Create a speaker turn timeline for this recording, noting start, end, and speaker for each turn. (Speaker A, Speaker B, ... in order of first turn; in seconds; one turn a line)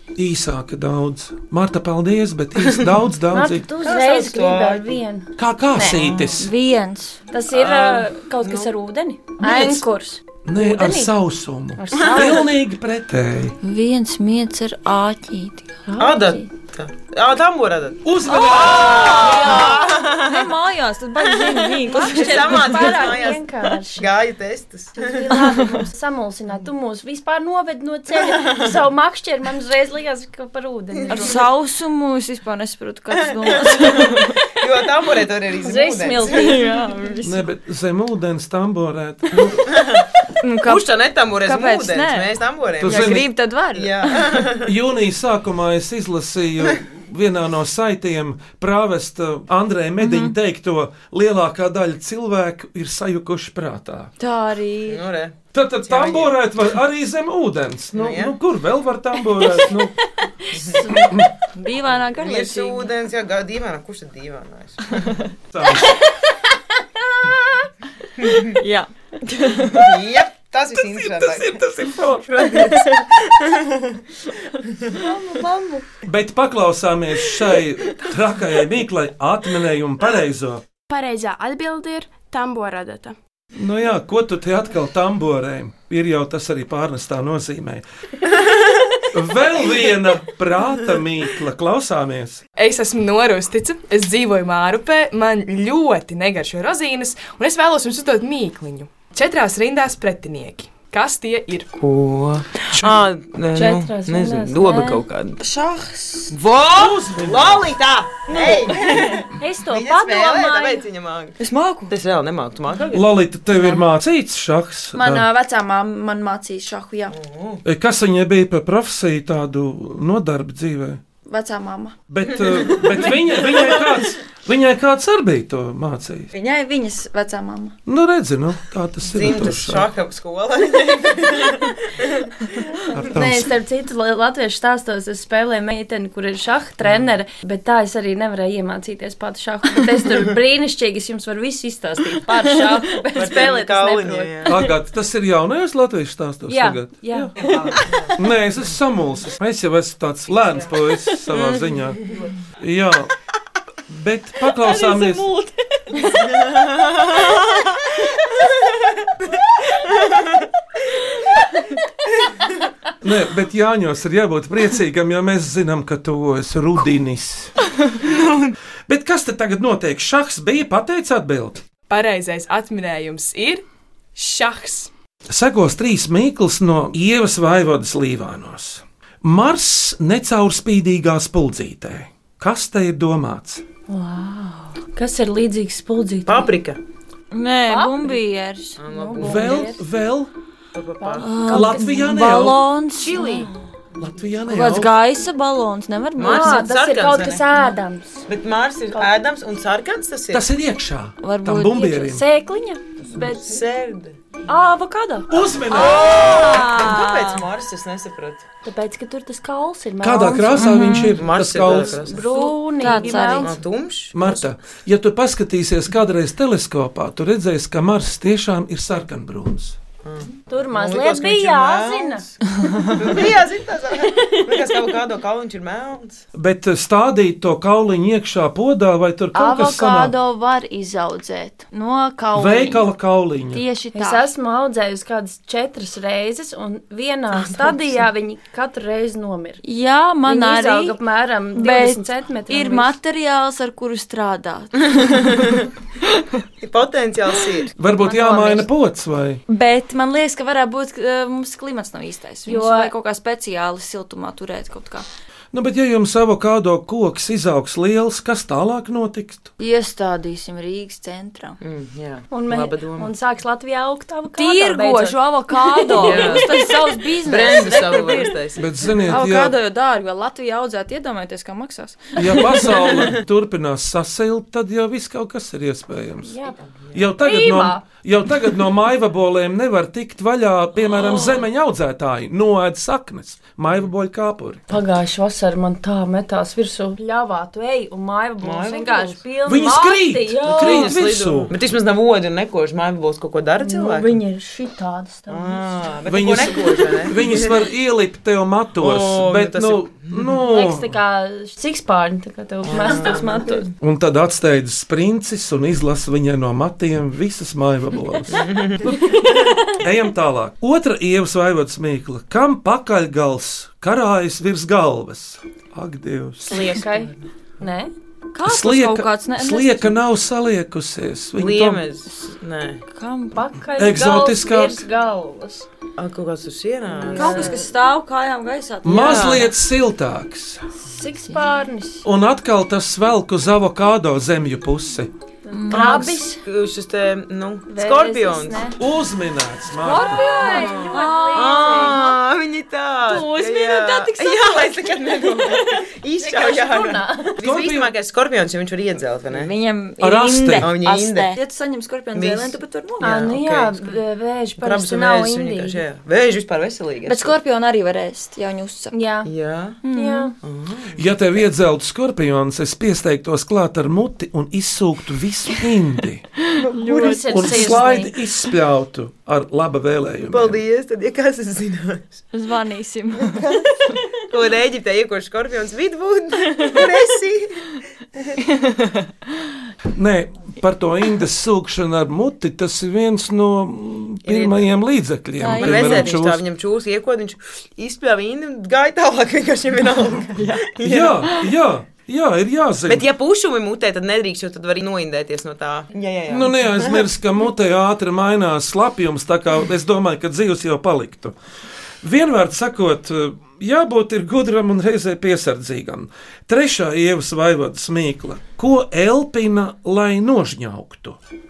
Speaker A: 0.2-3.7
Speaker B: 3.3-6.0
Speaker C: 3.8-5.0
Speaker A: 5.4-6.5
Speaker C: 5.8-6.5
Speaker D: 6.4-7.2
Speaker B: 7.3-11.1
Speaker C: 7.5-8.7
Speaker A: 10.4-13.6
Speaker B: 11.8-12.5
Speaker C: 12.0-12.3
Speaker D: 13.6-15.8
Speaker B: 15.9-16.4
Speaker C: 16.0-20.5
Speaker A: 18.0-19.5
Speaker D: 18.3-23.1
Speaker B: 19.3-19.6
Speaker C: 21.2-25.5
Speaker B: 21.9-24.1
Speaker B: 25.0-31.4
Speaker C: 31.0-31.4
Speaker D: 31.1-34.4
Speaker C: 33.1-36.7
Speaker B: 35.6-36.7
Speaker D: 36.3-37.4
Speaker A: 37.2-39.7
Speaker C: 39.7-40.0
Speaker D: 40.4-40.9
Speaker C: 40.6-44.7
Speaker D: 41.4-44.5
Speaker A: 42.8-43.3
Speaker A: 44.6-54.1
Speaker D: 50.0-50.4
Speaker D: 54.2-55.0
Speaker C: 54.9-56.3
Speaker A: 55.5-60.0
Speaker C: 57.9-58.4
Speaker D: 60.5-62.9
Speaker C: 60.5-61.1
Speaker A: 61.0-61.3
Speaker C: 61.9-65.2
Speaker A: 65.5-66.0
Speaker C: 68.2-68.5
Speaker D: 68.3-70.0
Speaker C: 69.7-71.6
Speaker A: 70.8-72.5
Speaker C: 72.4-73.8
Speaker D: 72.5-72.9
Speaker D: 75.0-75.8
Speaker A: 76.0-80.6
Speaker E: 80.9-83.2
Speaker A: 83.5-87.8
Speaker A: 89.1-92.4
Speaker F: 92.6-101.7
Speaker C: 101.8-105.4
Speaker B: 103.5-105.0
Speaker D: 105.4-106.3
Speaker C: 106.3-111.4
Speaker A: 106.7-107.7
Speaker D: 108.3-109.2
Speaker B: 109.4-110.9
Speaker D: 111.4-111.9
Speaker C: 111.9-113.1
Speaker A: 112.9-115.3
Speaker D: 114.9-117.2
Speaker C: 117.1-117.6
Speaker A: 117.7-121.0
Speaker D: 121.3-122.0
Speaker A: 122.1-126.3
Speaker D: 126.3-127.8
Speaker A: 127.9-129.9
Speaker C: 129.0-132.3
Speaker B: 132.9-144.4
Speaker A: 132.9-133.5
Speaker C: 136.8-137.1
Speaker C: 143.2-144.6
Speaker A: 144.4-147.3
Speaker B: 146.5-147.8
Speaker C: 147.5-148.1
Speaker A: 148.2-152.0
Speaker A: 152.6-153.1
Speaker A: 153.9-155.3
Speaker D: 154.5-156.4
Speaker C: 156.4-157.3
Speaker C: 159.8-160.2
Speaker A: 163.0-167.6
Speaker C: 168.0-168.5
Speaker A: 168.9-171.6
Speaker F: 171.9-173.6
Speaker F: 174.2-174.9
Speaker A: 175.3-183.6
Speaker B: 183.9-186.5
Speaker C: 186.3-186.8
Speaker D: 187.3-188.8
Speaker B: 187.7-188.2
Speaker C: 188.8-189.8
Speaker B: 188.9-189.8
Speaker A: 189.2-190.3
Speaker C: 190.7-191.4
Speaker B: 191.0-192.1
Speaker D: 191.2-193.5
Speaker A: 191.5-192.6
Speaker C: 193.0-193.5
Speaker B: 193.2-193.4
Speaker A: 194.0-194.9
Speaker D: 194.5-196.7
Speaker C: 196.2-197.4
Speaker B: 196.2-198.3
Speaker C: 198.3-200.5
Speaker A: 200.3-202.2
Speaker D: 201.2-202.2
Speaker B: 202.1-203.6
Speaker C: 203.0-204.2
Speaker B: 204.5-205.3
Speaker A: 205.3-206.5
Speaker D: 205.7-207.5
Speaker C: 205.7-208.4
Speaker B: 208.6-210.7
Speaker A: 210.0-212.0
Speaker D: 210.6-211.2
Speaker C: 211.1-212.3
Speaker B: 211.6-213.5
Speaker D: 212.3-213.6
Speaker C: 213.0-214.5
Speaker A: 214.1-219.8
Speaker C: 220.0-226.2
Speaker B: 220.5-222.2
Speaker A: 226.3-230.1
Speaker D: 229.3-232.9
Speaker A: 232.3-233.6
Speaker D: 233.5-234.3
Speaker B: 233.9-239.6
Speaker D: 239.6-241.0
Speaker B: 240.3-242.9
Speaker D: 241.6-245.6
Speaker C: 246.6-247.7
Speaker A: 247.8-249.4
Speaker B: 248.0-248.7
Speaker D: 249.5-255.1
Speaker B: 252.5-252.9
Speaker A: 255.5-259.5
Speaker D: 259.6-261.6
Speaker C: 261.6-263.1
Speaker B: 262.3-266.8
Speaker D: 264.4-268.4
Speaker C: 265.9-266.5
Speaker C: 267.2-268.7
Speaker A: 268.6-269.6
Speaker D: 269.1-273.1
Speaker A: 272.2-276.4
Speaker B: 276.2-276.6
Speaker A: 276.9-284.6
Speaker B: 277.2-277.8
Speaker D: 280.9-281.4
Speaker B: 284.7-291.0
Speaker C: 288.4-289.2
Speaker A: 289.4-291.6
Speaker C: 290.5-294.2
Speaker B: 293.6-295.7
Speaker C: 295.3-297.5
Speaker A: 296.1-300.9
Speaker C: 298.8-300.3
Speaker B: 300.5-303.7
Speaker C: 302.6-303.6
Speaker A: 303.8-316.6
Speaker C: 308.3-309.0
Speaker B: 316.4-317.9
Speaker D: 318.3-320.0
Speaker A: 318.4-321.8
Speaker C: 321.4-322.8
Speaker D: 322.9-323.4
Speaker B: 323.4-325.7
Speaker A: 323.8-324.8
Speaker C: 326.0-327.5
Speaker B: 327.0-327.7
Speaker D: 327.1-329.5
Speaker A: 328.8-330.7
Speaker C: 328.9-329.5
Speaker B: 330.8-332.1
Speaker A: 332.1-335.1
Speaker B: 335.5-336.4
Speaker D: 335.5-336.2
Speaker C: 335.7-338.7
Speaker B: 337.7-338.8
Speaker A: 338.8-340.2
Speaker B: 339.8-342.1
Speaker D: 340.2-342.2
Speaker C: 340.4-349.5
Speaker D: 343.1-345.6
Speaker B: 346.2-347.3
Speaker A: 347.4-347.9
Speaker D: 349.3-353.3
Speaker A: 350.0-350.7
Speaker C: 350.6-351.3
Speaker C: 352.1-353.9
Speaker B: 353.0-355.8
Speaker C: 354.6-357.3
Speaker D: 357.1-358.9
Speaker B: 358.9-359.3
Speaker C: 359.2-359.8
Speaker D: 359.8-360.3
Speaker B: 359.9-360.3
Speaker C: 360.4-361.0
Speaker A: 361.0-366.3
Speaker C: 366.6-367.2
Speaker D: 366.7-367.8
Speaker B: 366.8-368.1
Speaker A: 367.3-370.6
Speaker C: 370.3-372.2
Speaker D: 372.3-373.9
Speaker C: 373.3-373.6
Speaker C: 374.2-378.4
Speaker D: 378.6-378.9
Speaker A: 379.9-386.4
Speaker C: 384.2-384.8
Speaker D: 385.4-386.1
Speaker C: 385.5-391.3
Speaker A: 390.8-393.1
Speaker C: 392.9-397.1
Speaker A: 396.3-401.4
Speaker A: 402.0-411.2